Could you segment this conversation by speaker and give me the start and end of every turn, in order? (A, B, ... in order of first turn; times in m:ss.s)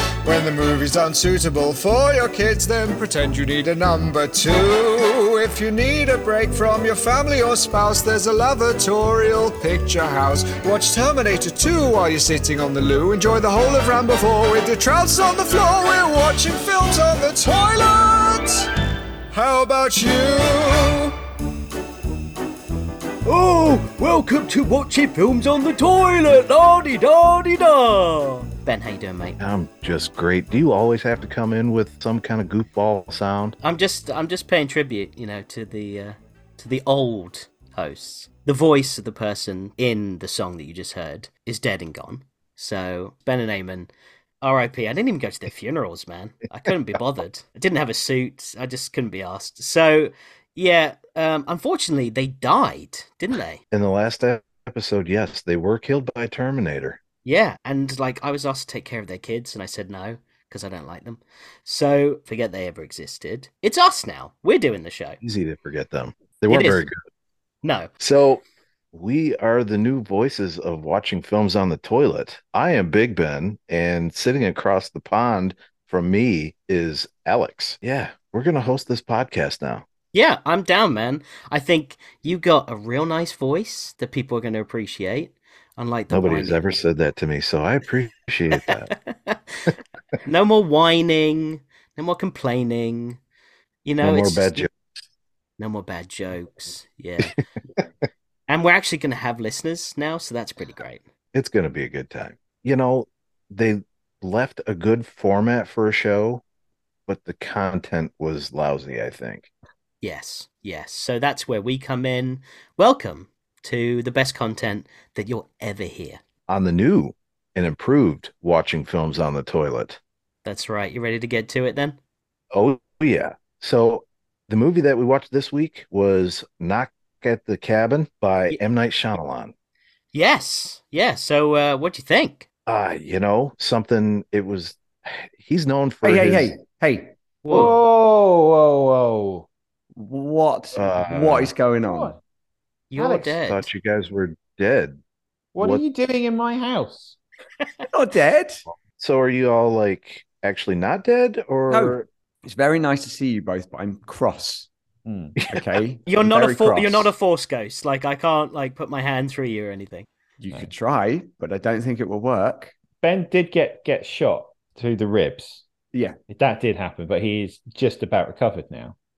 0:00.2-0:18.7 A
0:19.3-0:21.2 A
0:23.2-0:27.7 A
0:24.9-0:25.8 B
0:27.5-0:29.4 B
0:29.4-0:33.6 C
0:33.6-0:43.9 B
0:44.4-0:53.6 B
0:53.7-0:57.0 C
0:57.2-1:05.2 B
1:05.2-1:07.0 C
1:06.5-1:06.8 B
1:07.6-1:07.9 B
1:08.0-1:19.8 C
1:20.1-1:26.6 B
1:26.1-1:28.9 C
1:28.5-1:29.4 B
1:30.2-1:33.2 B
1:33.8-1:34.7 B
1:34.0-1:34.7 C
1:35.6-1:37.4 B
1:38.5-1:41.0 B
1:41.3-1:46.4 C
1:47.1-1:49.5 C
1:50.0-1:56.2 B
1:56.5-2:00.0 C
2:00.4-2:02.0 B
2:02.5-2:09.5 C
2:10.1-2:12.4 B
2:12.7-2:16.5 C
2:16.0-2:17.2 D
2:17.4-2:17.8 B
2:17.5-2:19.4 E
2:20.0-2:22.2 D
2:20.7-2:21.5 C
2:21.8-2:22.2 E
2:22.9-2:23.7 B
2:23.0-2:23.4 E
2:23.4-2:25.0 C
2:25.5-2:27.2 E
2:27.9-2:28.6 D
2:29.0-2:32.0 C
2:31.7-2:34.7 D
2:35.0-2:35.4 E
2:35.5-2:37.1 D
2:36.0-2:40.1 B
2:40.4-2:42.7 D
2:43.0-2:45.6 E
2:45.9-2:46.2 D
2:46.3-2:48.9 E